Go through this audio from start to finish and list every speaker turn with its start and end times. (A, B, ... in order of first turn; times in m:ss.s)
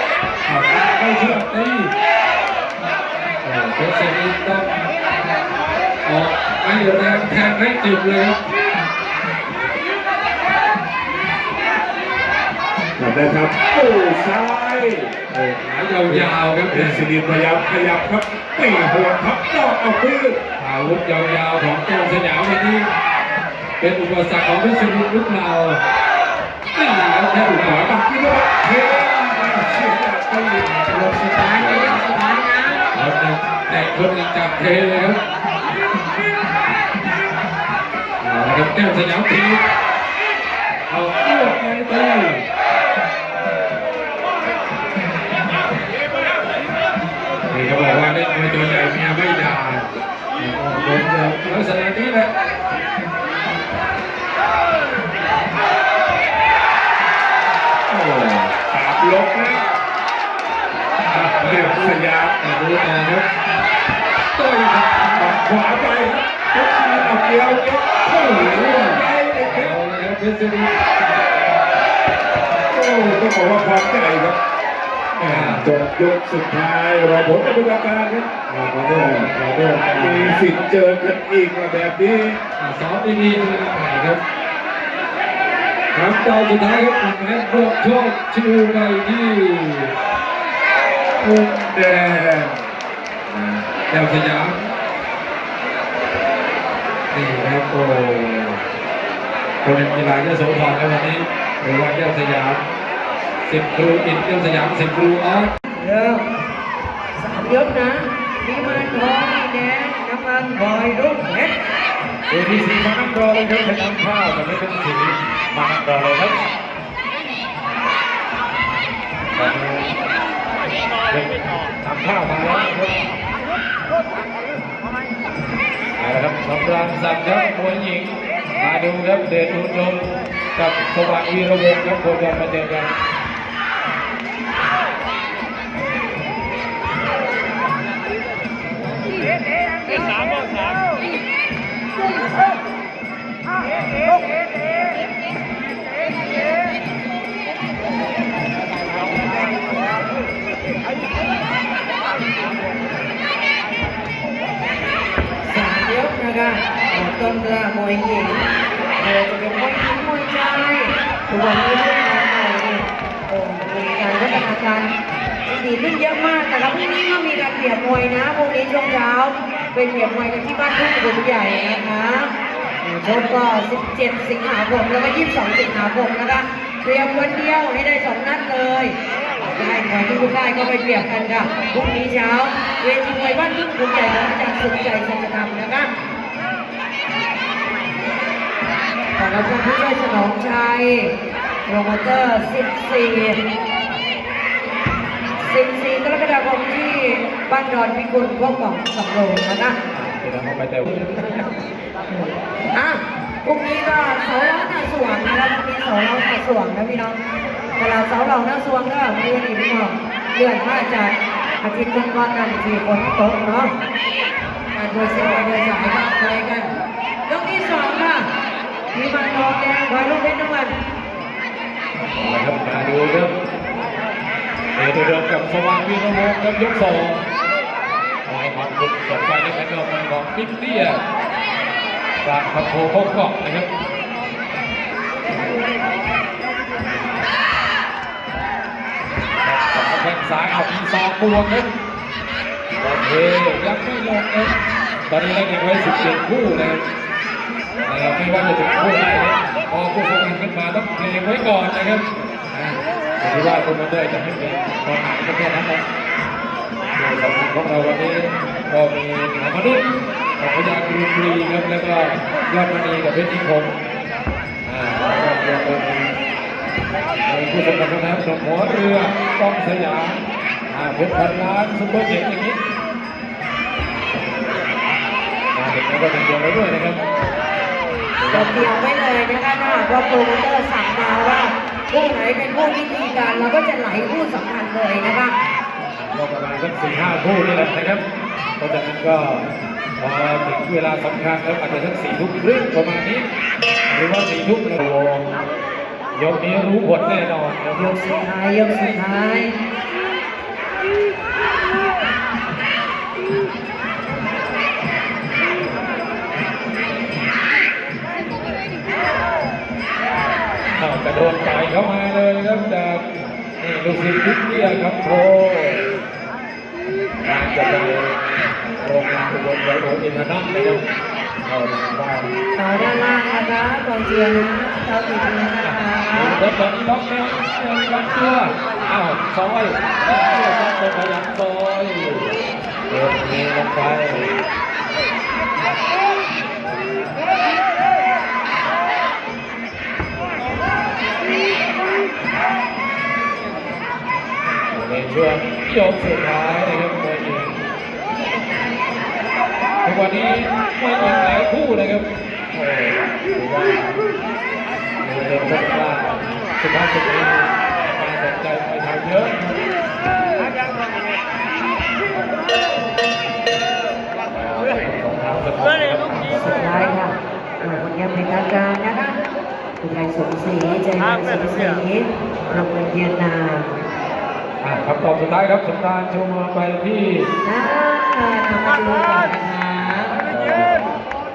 0:00.4-0:01.9 A
0:03.4-0:04.9 A
0:06.0-0:08.4 A
0:13.0-0:15.1 B
0:15.3-0:17.1 A
0:16.1-0:20.4 B
0:20.6-0:22.9 A
0:23.8-0:25.8 A
0:26.7-0:28.0 A
0:27.3-0:31.4 B
0:31.2-0:32.8 C
0:31.4-0:32.0 A
0:32.9-0:35.2 A
0:38.2-0:39.6 A
0:40.9-0:42.4 A
0:47.5-0:49.9 A
0:50.4-0:52.3 A
0:57.9-0:59.6 B
1:01.1-1:03.3 A
1:01.4-1:02.4 B
1:04.4-1:05.3 A
1:05.2-1:09.8 B
1:08.0-1:10.7 A
1:12.7-1:14.4 B
1:15.2-1:18.3 B
1:15.2-1:15.7 A
1:18.5-1:20.4 A
1:18.9-1:19.3 B
1:19.9-1:22.4 B
1:22.6-1:24.2 A
1:25.9-1:29.9 A
1:31.2-1:32.6 B
1:33.3-1:34.7 A
1:37.1-1:38.6 A
1:39.6-1:42.6 A
1:43.4-1:45.5 A
1:45.8-1:46.2 C
1:47.2-1:51.5 C
1:48.6-1:49.0 A
1:52.3-1:56.5 A
1:59.4-1:59.9 A
2:01.8-2:03.1 A
2:06.0-2:12.9 A
2:35.4-2:38.5 C
2:39.0-2:44.9 C
2:45.5-3:05.9 C
3:09.2-3:11.1 C
3:11.7-3:13.4 C
3:15.4-3:19.8 C
3:19.9-3:21.4 A
3:22.1-3:27.2 C
3:27.8-3:33.7 C
3:34.8-3:36.7 C
3:37.3-3:38.3 C
3:38.9-3:40.7 C
3:42.2-3:43.3 A
3:44.8-3:47.2 A
3:48.3-3:51.0 A
3:52.2-3:53.7 A
3:59.4-4:01.7 A
4:02.8-4:04.5 A
4:05.1-4:06.8 A
4:07.8-4:15.8 A
4:17.0-4:23.7 A
4:24.7-4:26.1 A
4:27.3-4:30.2 A
4:30.7-4:32.6 A
4:35.6-4:37.0 A
4:38.2-4:38.7 A
4:38.3-4:45.4 C
4:46.0-4:48.0 A
4:48.6-4:53.2 A
4:53.9-4:55.3 A
4:56.1-4:57.9 A
4:57.7-4:59.5 C
5:10.8-5:13.0 A
5:13.6-5:15.8 A
5:17.2-5:18.1 A
5:18.8-5:20.8 A
5:21.5-5:22.3 A
5:22.6-5:26.4 C
5:25.6-5:32.3 A
5:32.9-5:34.3 A
5:44.7-5:47.6 A
5:49.8-5:53.9 A
5:55.0-5:59.5 A
6:04.4-6:06.9 A
6:06.3-6:09.2 C
6:09.8-6:13.7 C
6:14.6-6:17.3 A
6:17.4-6:20.2 C
6:20.3-6:21.0 A